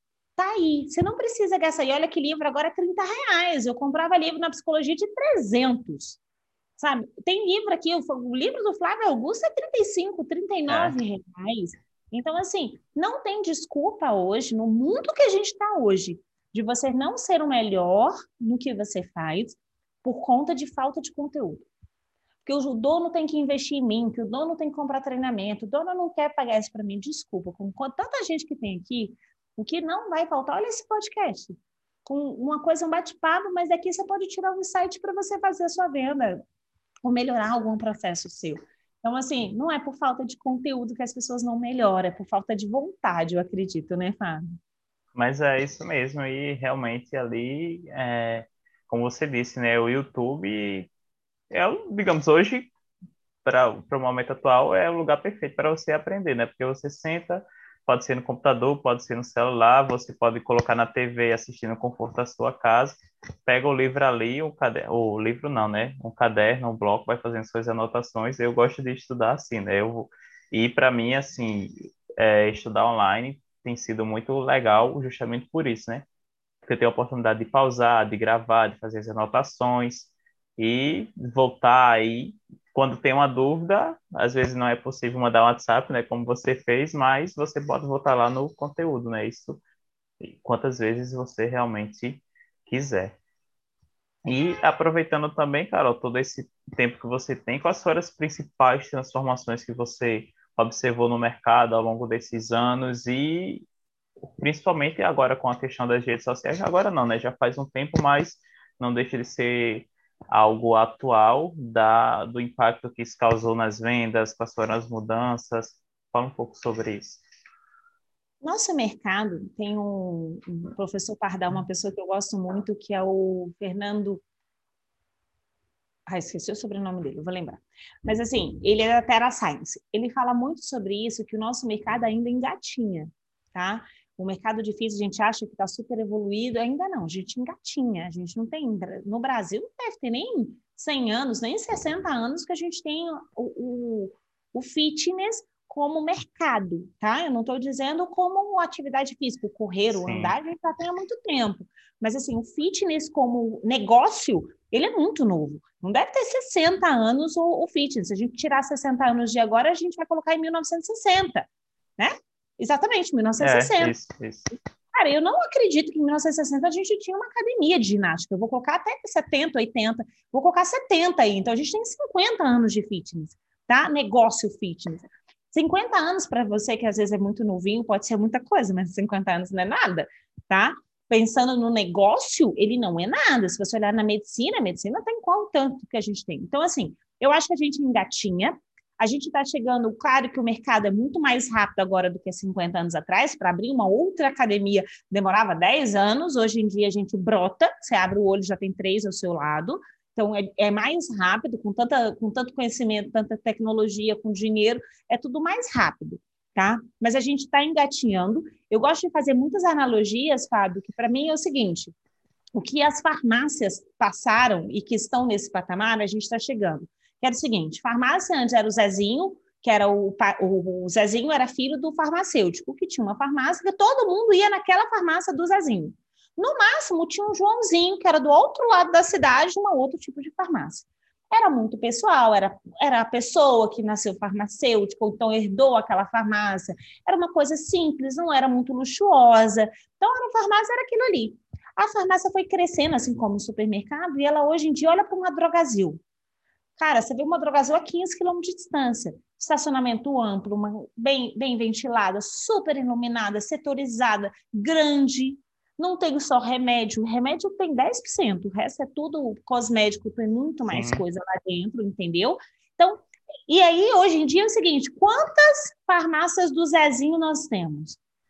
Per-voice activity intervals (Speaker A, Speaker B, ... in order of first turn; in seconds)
Speaker A: 0.4-6.2, 6.8-21.7, 22.4-36.4, 37.0-44.6, 118.4-124.2, 126.1-161.5, 162.0-163.9, 164.9-211.9, 212.5-246.0, 246.8-268.0
Speaker B: 10.7-11.0, 45.1-50.9, 51.5-52.7, 53.4-76.0, 76.6-89.6, 90.2-93.2, 94.2-103.6, 104.4-117.2, 149.9-150.4, 163.4-164.5, 260.7-261.0